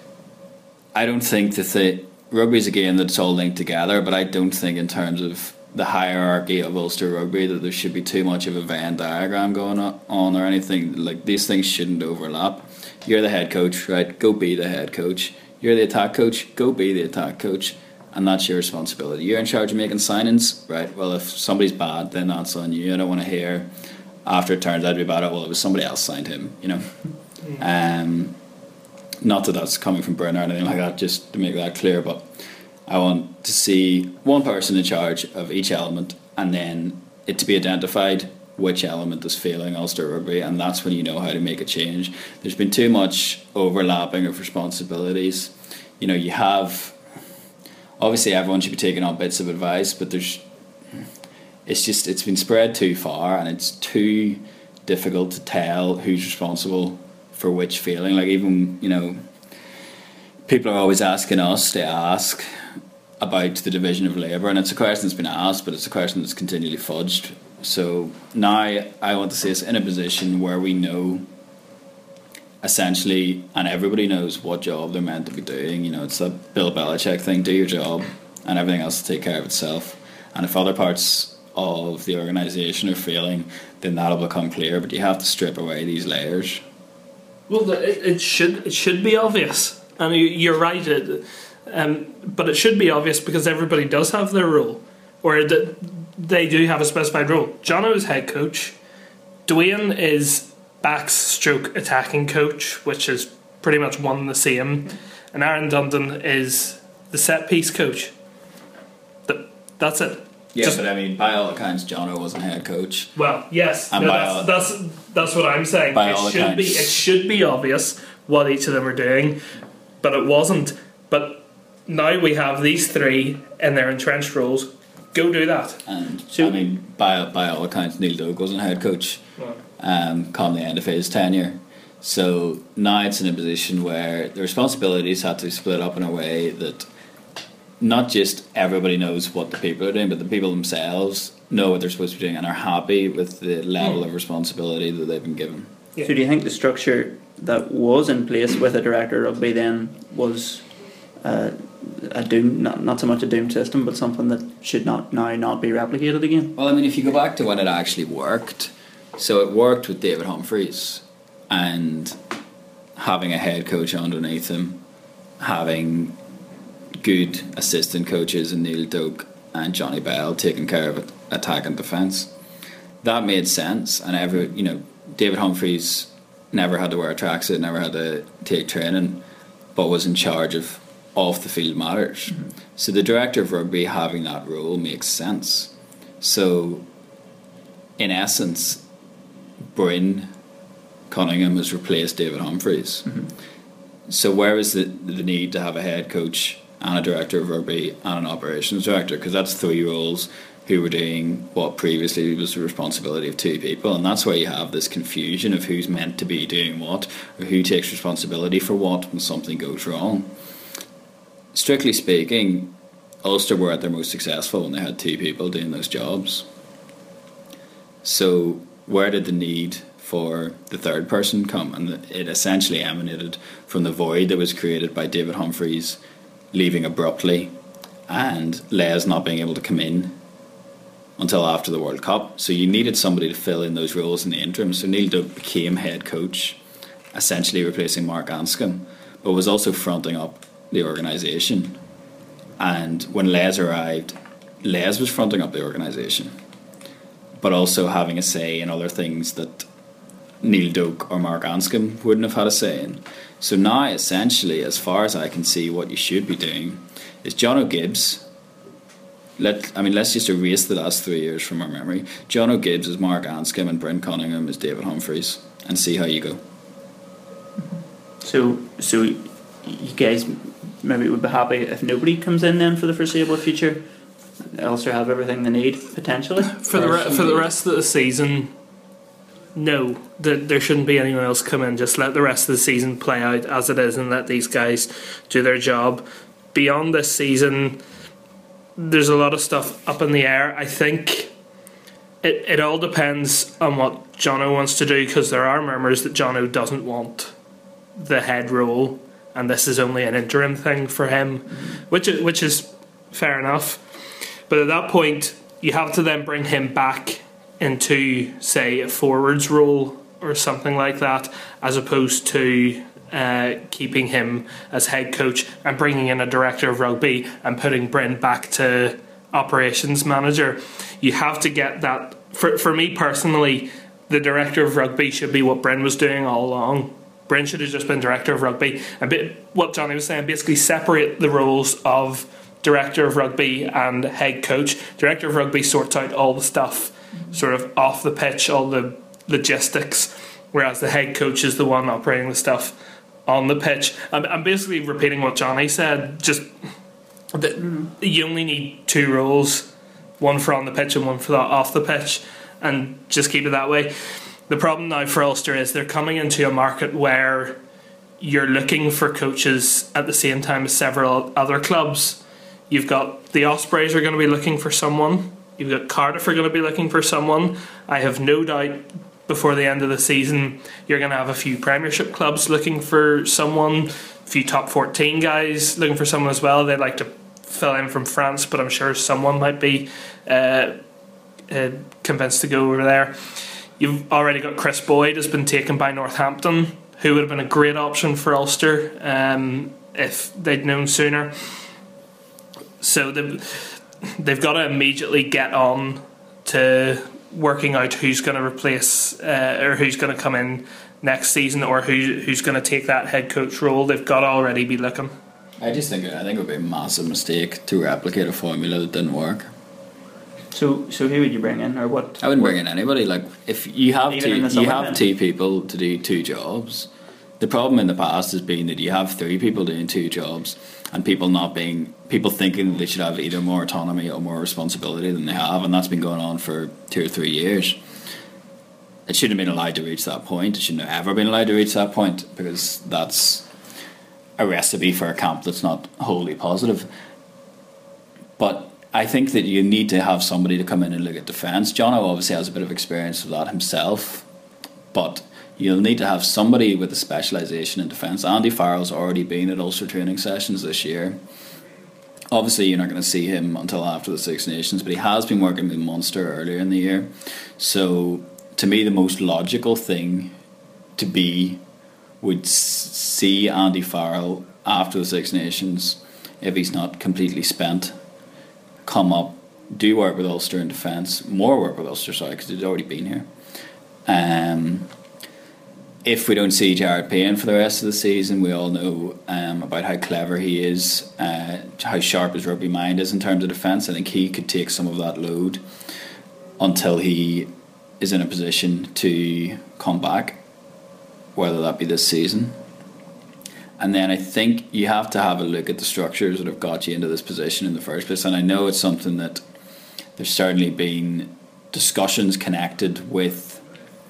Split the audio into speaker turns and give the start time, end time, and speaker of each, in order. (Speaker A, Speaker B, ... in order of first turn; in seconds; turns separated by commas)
Speaker A: 0.9-23.7, Speaker A: 24.2-27.0, Speaker A: 27.6-28.3, Speaker A: 29.2-32.3, Speaker A: 32.9-47.0, Speaker A: 48.0-50.4, Speaker A: 51.6-59.2, Speaker A: 60.5-62.4, Speaker A: 63.2-71.2, Speaker A: 72.6-86.6, Speaker B: 87.5-98.8, Speaker B: 99.5-108.1, Speaker B: 109.3-110.8, Speaker A: 110.5-113.1, Speaker B: 113.2-119.4, Speaker A: 113.9-114.5, Speaker A: 115.9-117.0, Speaker B: 120.0-125.8, Speaker A: 125.8-129.2, Speaker C: 126.3-126.5, Speaker A: 129.8-136.9, Speaker A: 137.8-145.7, Speaker C: 146.0-150.7, Speaker C: 151.2-156.5, Speaker A: 156.6-162.2, Speaker A: 163.0-164.8, Speaker A: 165.4-166.2, Speaker A: 167.0-172.3, Speaker A: 173.0-179.2, Speaker A: 179.7-186.8, Speaker A: 188.0-188.8, Speaker A: 189.7-190.3, Speaker A: 191.1-193.2, Speaker A: 194.1-210.3, Speaker A: 211.5-216.5, Speaker A: 218.0-226.0, Speaker A: 226.5-227.5, Speaker A: 228.1-230.2, Speaker A: 231.2-236.6, Speaker A: 237.1-241.8, Speaker A: 242.6-246.3, Speaker A: 247.4-249.7, Speaker A: 250.4-258.2, Speaker A: 259.4-266.4, Speaker C: 268.2-273.9, Speaker C: 274.4-277.5, Speaker B: 276.6-278.5, Speaker B: 279.5-287.8, Speaker B: 288.8-291.3, Speaker B: 292.2-297.3, Speaker B: 297.9-303.8, Speaker B: 304.5-342.7, Speaker B: 343.2-346.5, Speaker B: 347.3-353.9, Speaker B: 354.5-357.6, Speaker B: 358.2-380.8, Speaker B: 381.5-391.3, Speaker B: 392.8-405.1, Speaker A: 405.6-409.5, Speaker C: 410.5-412.5, Speaker A: 412.2-427.8, Speaker C: 414.1-415.0, Speaker A: 429.1-433.5, Speaker A: 434.4-436.9, Speaker A: 438.4-444.3, Speaker A: 444.9-451.2, Speaker A: 452.3-460.3, Speaker A: 461.0-461.6, Speaker A: 462.2-467.9, Speaker A: 468.8-473.3, Speaker A: 474.1-474.9, Speaker A: 476.0-485.6, Speaker A: 486.6-490.4, Speaker A: 491.3-492.6, Speaker A: 493.8-499.4, Speaker A: 500.2-503.6